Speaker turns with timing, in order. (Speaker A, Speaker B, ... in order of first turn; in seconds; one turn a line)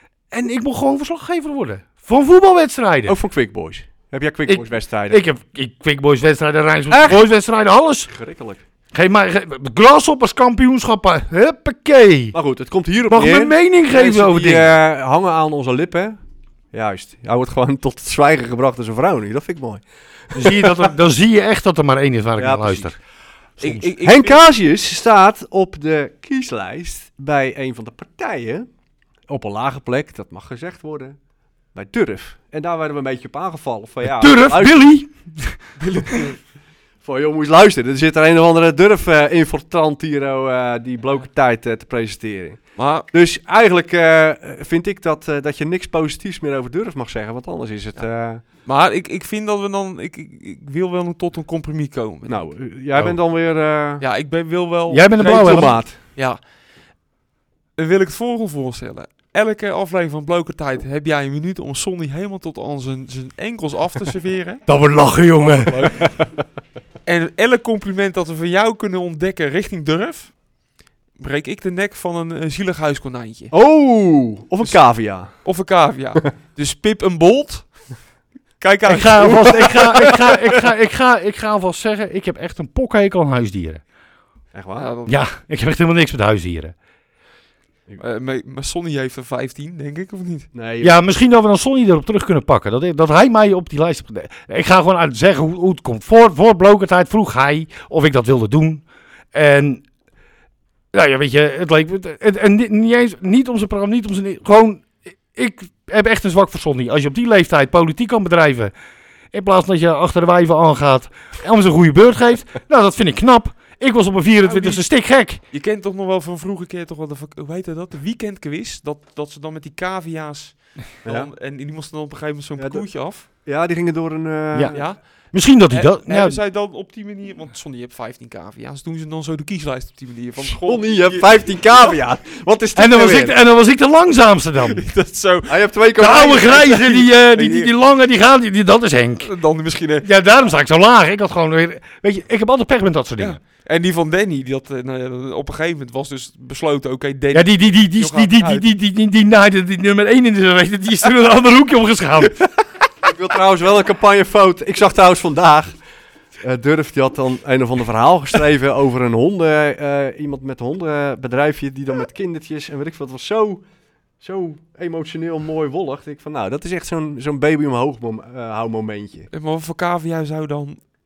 Speaker A: 0.3-3.1
Speaker B: 3.0-5.2
Speaker A: 4.5-8.1
Speaker B: 6.9-7.3
Speaker B: 8.1-8.6
Speaker A: 8.9-12.3
Speaker B: 12.3-16.2
Speaker A: 13.1-14.7
Speaker B: 16.7-20.9
Speaker A: 20.3-22.9
Speaker B: 22.4-22.9
Speaker A: 23.6-23.9
Speaker C: 23.6-24.4
Speaker B: 24.0-28.7
Speaker B: 29.3-31.2
Speaker B: 31.7-34.9
Speaker A: 34.0-35.6
Speaker C: 35.8-36.2
Speaker B: 37.0-48.4
Speaker C: 42.8-43.0
Speaker C: 48.6-52.4
Speaker B: 52.2-54.0
Speaker C: 54.0-56.4
Speaker A: 54.9-55.8
Speaker B: 55.2-56.0
Speaker C: 57.8-64.6
Speaker A: 64.7-65.8
Speaker B: 65.4-66.2
Speaker C: 65.7-66.1
Speaker C: 67.0-70.4
Speaker C: 71.2-73.5
Speaker B: 73.5-75.4
Speaker C: 75.3-78.0
Speaker C: 78.6-80.3
Speaker A: 78.9-83.8
Speaker B: 79.2-80.3
Speaker B: 84.5-84.9
Speaker C: 84.8-85.2
Speaker A: 85.1-86.7
Speaker C: 88.0-90.5
Speaker B: 90.5-91.0
Speaker A: 90.8-99.8
Speaker A: 100.9-108.7
Speaker A: 109.3-115.4
Speaker C: 114.5-114.8
Speaker C: 115.5-123.2
Speaker B: 121.0-121.3
Speaker B: 122.6-124.9
Speaker C: 124.7-125.0
Speaker A: 125.3-126.4
Speaker C: 125.7-131.9
Speaker B: 130.4-133.4
Speaker A: 132.8-134.8
Speaker C: 134.6-135.6
Speaker B: 135.4-137.1
Speaker A: 136.0-139.3
Speaker C: 136.1-136.4
Speaker C: 137.1-137.7
Speaker C: 139.2-140.1
Speaker A: 140.0-143.4
Speaker C: 143.2-148.6
Speaker A: 147.3-152.3
Speaker B: 153.0-155.7
Speaker B: 156.4-163.6
Speaker B: 164.2-169.3
Speaker C: 169.3-170.8